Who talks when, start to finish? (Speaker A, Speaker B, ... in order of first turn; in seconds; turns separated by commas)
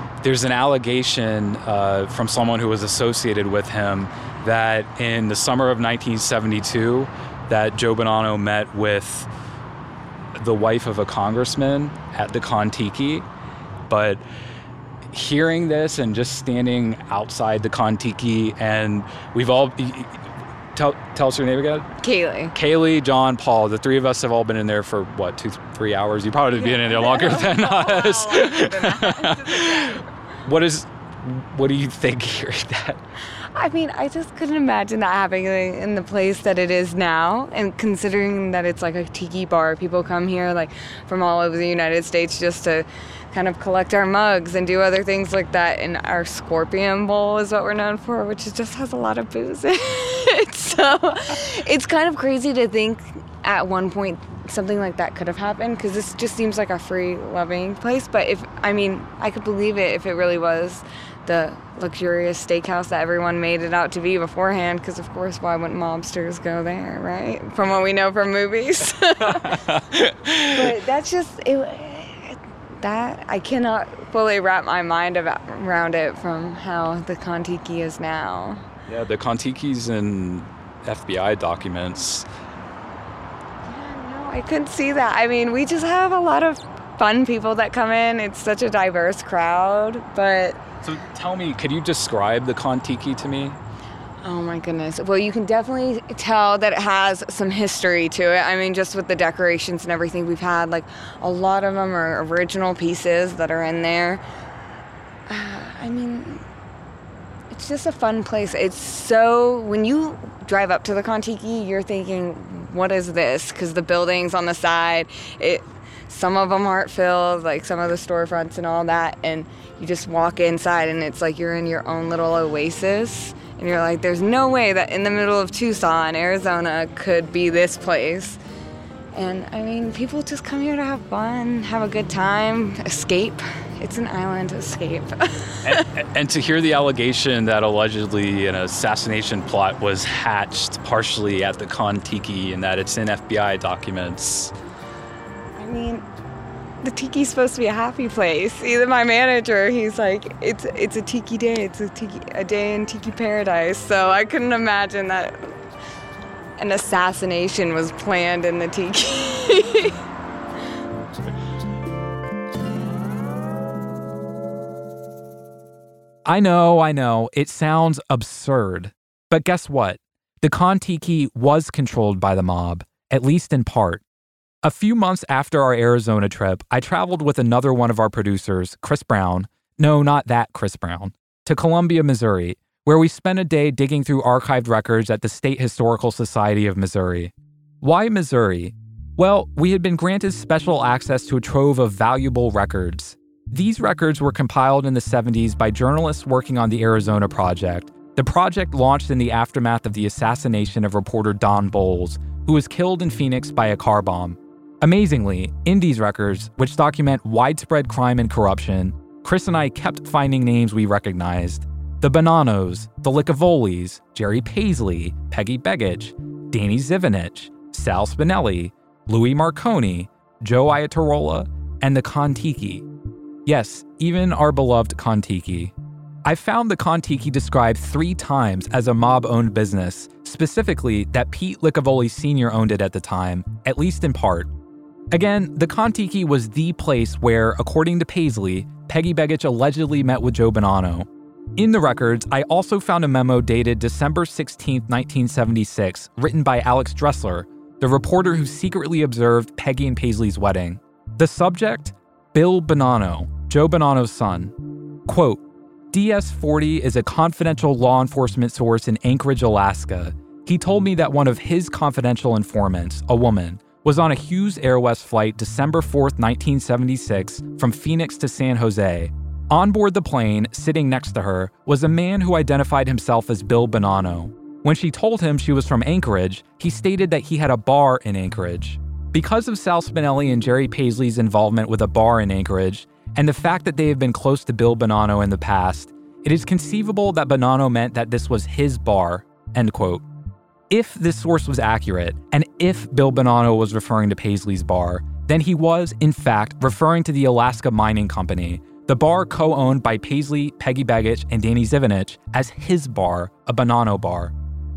Speaker A: 0.2-9.3, Speaker A: 10.3-13.3, Speaker A: 13.9-14.2, Speaker A: 15.1-20.2, Speaker A: 20.8-21.9, Speaker B: 22.0-22.6, Speaker A: 22.5-33.0, Speaker B: 26.6-30.0, Speaker B: 33.5-69.6, Speaker A: 69.4-70.6, Speaker B: 70.5-78.6, Speaker A: 78.9-82.3, Speaker B: 83.7-90.6, Speaker A: 90.8-93.6, Speaker B: 94.2-104.2, Speaker B: 105.3-106.5, Speaker B: 107.5-128.4, Speaker B: 129.2-135.9, Speaker A: 135.6-144.5, Speaker B: 145.6-146.1, Speaker B: 146.8-155.4, Speaker B: 156.6-159.9, Speaker C: 166.3-174.0, Speaker C: 174.6-222.8, Speaker C: 223.5-225.7, Speaker C: 226.3-234.5, Speaker C: 235.1-254.5, Speaker C: 255.1-290.0, Speaker C: 290.7-304.3